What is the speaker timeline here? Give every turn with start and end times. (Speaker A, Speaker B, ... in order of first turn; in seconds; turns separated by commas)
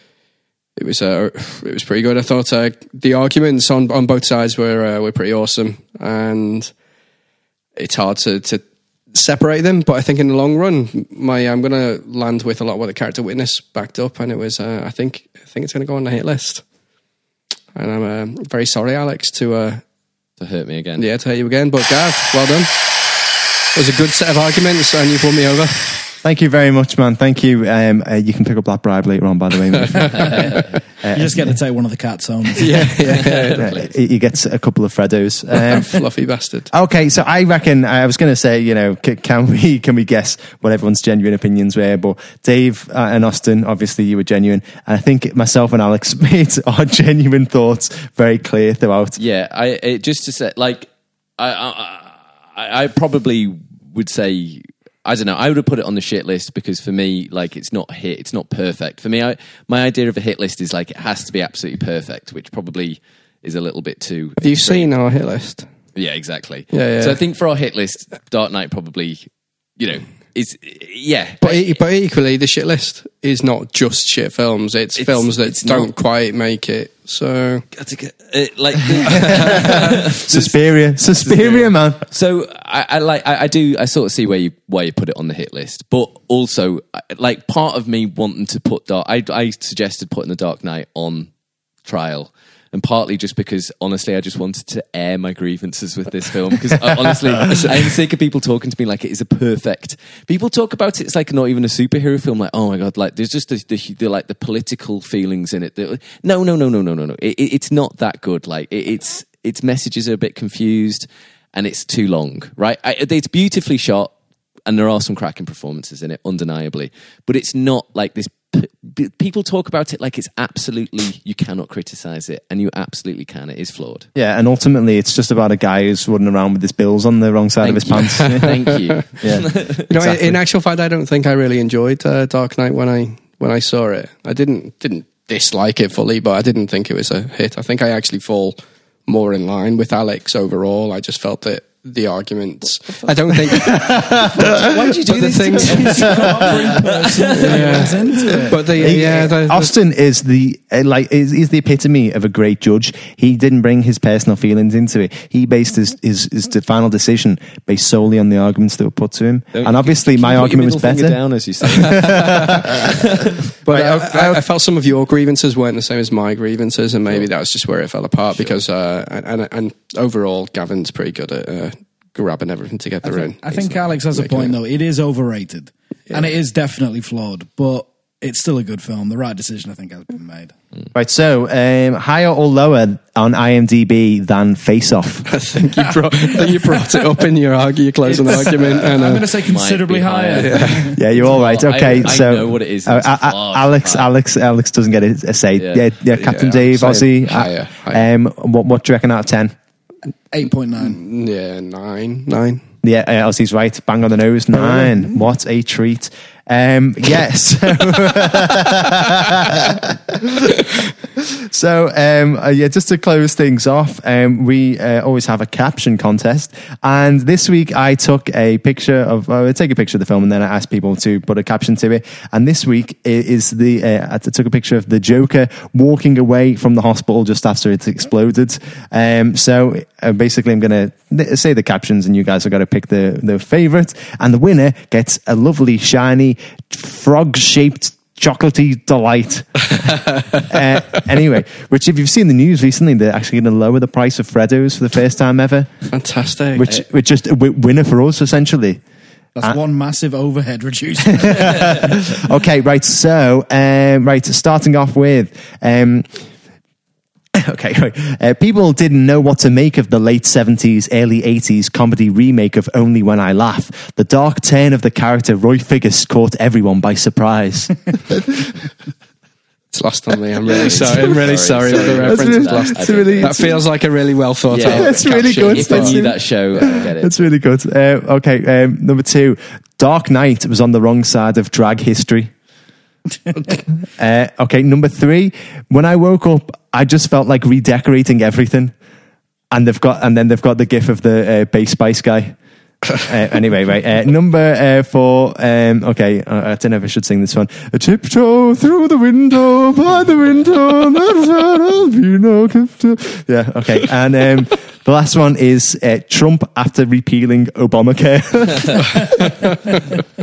Speaker A: 0.8-6.7, Speaker A: 7.8-8.6, Speaker A: 9.1-16.6, Speaker A: 17.7-19.8, Speaker B: 20.4-21.1, Speaker A: 21.0-23.0, Speaker A: 23.7-26.1, Speaker C: 26.2-31.3, Speaker B: 30.2-30.6, Speaker D: 31.1-32.8, Speaker A: 32.6-33.7, Speaker B: 33.0-33.9, Speaker C: 33.5-36.0, Speaker A: 35.7-36.7, Speaker C: 36.7-49.2, Speaker B: 49.2-64.9, Speaker A: 64.4-65.7, Speaker B: 65.9-71.8, Speaker A: 66.7-67.2, Speaker A: 71.4-77.6, Speaker B: 75.0-75.9, Speaker B: 77.7-91.3, Speaker C: 79.2-82.0, Speaker B: 91.8-114.1, Speaker B: 114.7-124.1, Speaker C: 124.2-128.7, Speaker B: 127.6-129.9, Speaker A: 128.2-128.8, Speaker C: 129.2-129.4, Speaker A: 129.9-146.1, Speaker C: 130.0-130.3, Speaker C: 143.5-144.6, Speaker B: 144.4-148.0, Speaker D: 145.6-149.0, Speaker C: 145.8-146.6, Speaker A: 147.3-149.7, Speaker C: 148.1-161.2, Speaker B: 159.5-163.3, Speaker C: 161.8-162.7, Speaker A: 163.6-174.5, Speaker C: 163.7-164.4, Speaker D: 173.0-180.5, Speaker C: 180.9-185.3, Speaker A: 185.3-189.2, Speaker D: 188.0-191.2, Speaker B: 189.4-194.1, Speaker A: 190.3-190.8, Speaker C: 191.0-199.5, Speaker B: 195.6-195.8, Speaker A: 196.1-198.1, Speaker D: 200.3-201.0, Speaker A: 200.8-202.6, Speaker C: 202.8-245.7, Speaker A: 245.9-246.7, Speaker C: 246.5-248.8, Speaker D: 249.3-251.9, Speaker C: 251.2-256.1, Speaker C: 257.3-268.6, Speaker A: 269.7-276.0, Speaker B: 270.4-273.5, Speaker C: 270.8-271.1, Speaker C: 271.7-273.6, Speaker B: 274.5-277.1, Speaker C: 274.6-282.3, Speaker C: 283.4-288.7, Speaker C: 289.5-292.4, Speaker C: 293.0-309.0